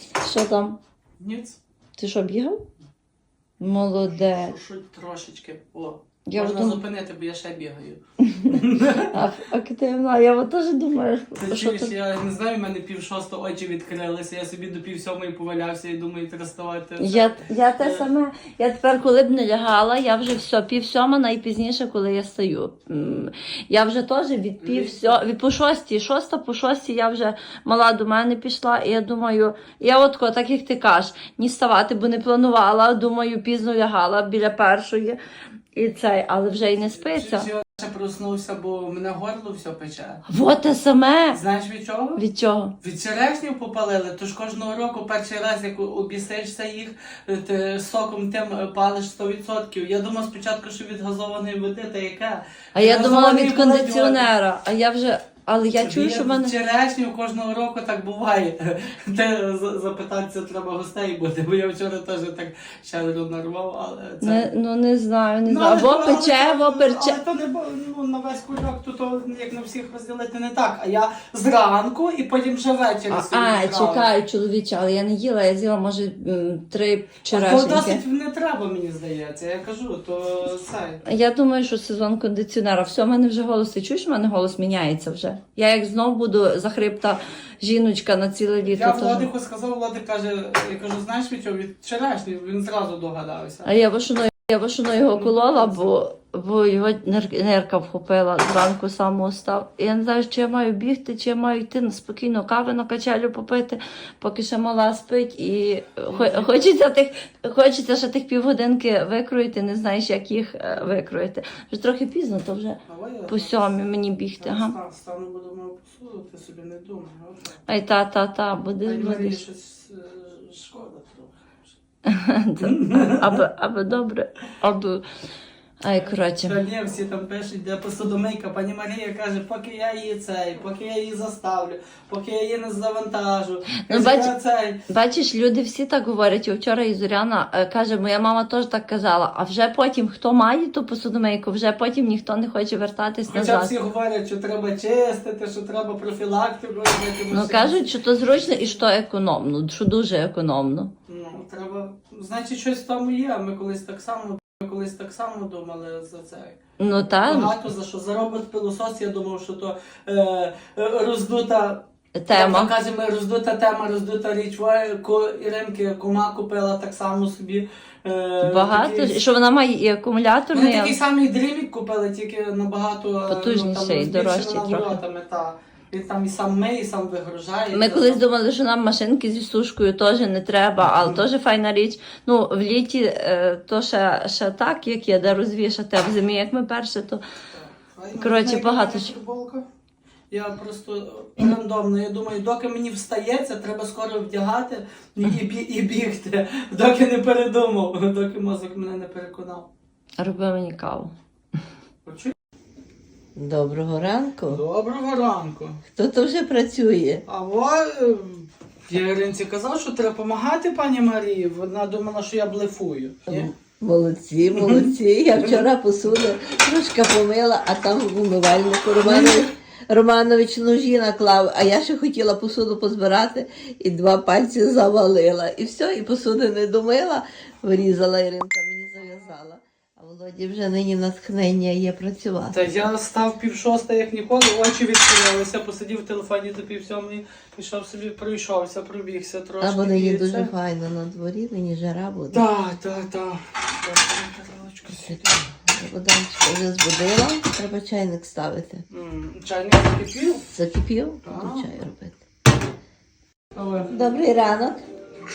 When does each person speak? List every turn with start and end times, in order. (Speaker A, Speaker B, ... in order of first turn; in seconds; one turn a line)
Speaker A: 0.2-0.8
Speaker B: 1.2-1.6
Speaker A: 2.0-2.6
Speaker A: 3.6-4.5
Speaker B: 4.2-9.1
Speaker A: 6.3-6.8
Speaker A: 8.2-8.6
Speaker A: 9.1-11.9
Speaker B: 11.4-18.1
Speaker A: 17.0-35.2
Speaker B: 24.6-25.2
Speaker A: 35.7-37.5
Speaker B: 36.8-40.2
Speaker A: 40.3-41.4
Speaker B: 41.3-42.2
Speaker A: 42.2-42.7
Speaker B: 42.8-54.3
Speaker A: 52.7-56.5
Speaker B: 55.7-64.5
Speaker A: 64.2-67.2
Speaker B: 65.4-74.1
Speaker A: 73.1-78.0
Speaker B: 77.3-81.0
Speaker A: 81.0-89.3
Speaker B: 88.7-93.7
Speaker A: 93.6-114.7
Speaker B: 95.1-95.9
Speaker B: 106.1-106.8
Speaker B: 112.9-113.7
Speaker B: 114.4-117.7
Speaker A: 117.7-119.4
Speaker B: 118.8-121.7
Speaker A: 122.0-125.0
Speaker B: 122.6-123.5
Speaker A: 125.8-126.6
Speaker B: 126.0-134.8
Speaker A: 133.8-134.3
Speaker A: 134.9-143.7
Speaker B: 143.3-148.7
Speaker A: 147.3-150.9
Speaker B: 151.1-169.2
Speaker A: 156.8-157.5
Speaker A: 162.2-162.7
Speaker A: 168.4-170.9
Speaker B: 170.5-178.2
Speaker A: 173.3-175.0
Speaker A: 177.7-187.2
Speaker B: 180.9-181.2
Speaker B: 187.5-189.7
Speaker A: 188.2-189.1
Speaker B: 190.3-199.7
Speaker A: 200.2-201.1
Speaker B: 202.0-202.3
Speaker C: 203.3-204.6
Speaker B: 204.5-205.8
Speaker C: 205.9-207.2
Speaker B: 207.3-213.5
Speaker C: 213.3-232.9
Speaker B: 214.5-215.6
Speaker B: 219.0-219.4
Speaker B: 232.5-240.5
Speaker C: 239.6-242.4
Speaker B: 242.3-245.5
Speaker C: 244.9-248.8
Speaker B: 248.9-250.4
Speaker C: 250.5-252.2
Speaker B: 251.2-251.7
Speaker B: 253.5-253.9
Speaker C: 253.9-254.8